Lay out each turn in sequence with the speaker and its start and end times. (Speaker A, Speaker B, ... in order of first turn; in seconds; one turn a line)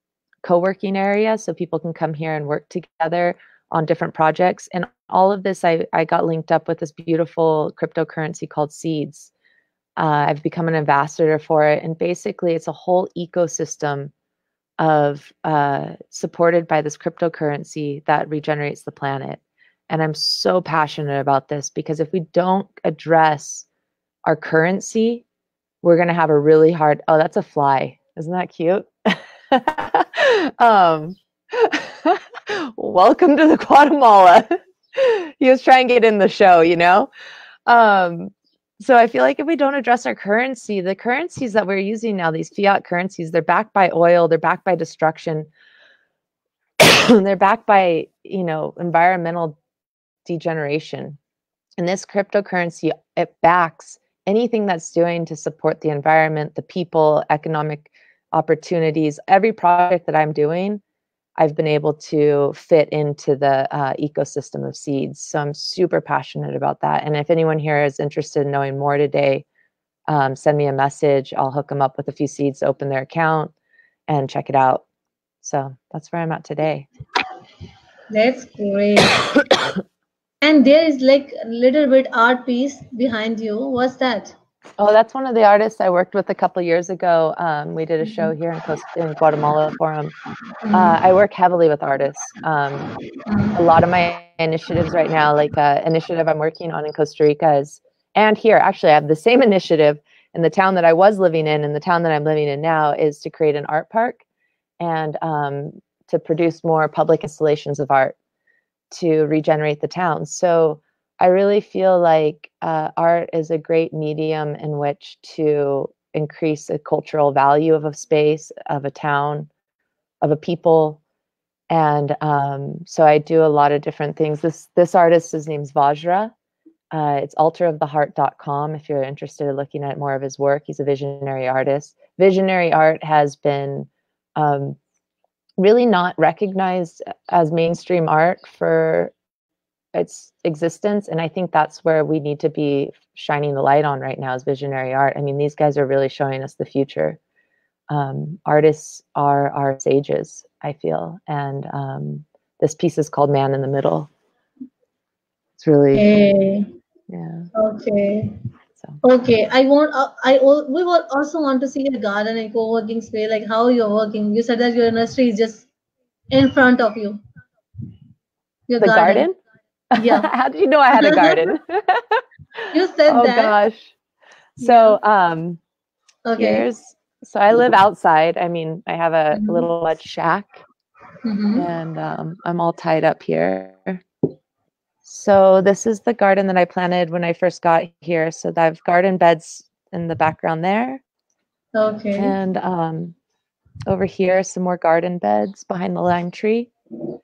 Speaker A: 0.4-9.3
Speaker A: 10.0-14.1
Speaker A: 14.8-23.7
Speaker A: 24.2-25.2
Speaker A: 25.8-37.1
Speaker A: 37.7-45.5
Speaker A: 46.8-49.6
Speaker A: 50.2-51.2
Speaker A: 51.8-60.8
Speaker A: 61.4-69.5
Speaker A: 70.1-73.5
Speaker A: 74.1-74.8
Speaker A: 75.4-76.9
Speaker B: 78.1-79.2
Speaker B: 80.4-84.3
Speaker A: 84.8-90.1
Speaker B: 90.6-91.0
Speaker A: 90.7-92.9
Speaker B: 93.3-93.6
Speaker A: 93.5-104.2
Speaker A: 104.8-108.2
Speaker A: 108.9-119.5
Speaker A: 120.2-121.0
Speaker A: 121.7-126.3
Speaker A: 126.9-134.8
Speaker A: 135.6-139.1
Speaker A: 139.9-147.2
Speaker A: 147.9-154.1
Speaker A: 155.6-156.2
Speaker B: 155.9-156.7
Speaker A: 157.1-157.5
Speaker B: 157.6-158.3
Speaker B: 159.0-165.7
Speaker B: 166.3-167.2
Speaker B: 168.7-169.3
Speaker A: 168.8-169.4
Speaker A: 169.9-172.2
Speaker B: 170.0-170.3
Speaker B: 171.0-171.6
Speaker B: 172.7-173.6
Speaker A: 173.1-173.9
Speaker A: 174.6-175.6
Speaker B: 174.6-175.0
Speaker B: 176.2-176.7
Speaker A: 176.4-180.6
Speaker B: 179.3-179.7
Speaker B: 181.2-181.7
Speaker A: 181.6-184.0
Speaker A: 185.1-191.0
Speaker B: 191.8-192.3
Speaker A: 192.2-193.2
Speaker A: 193.8-196.7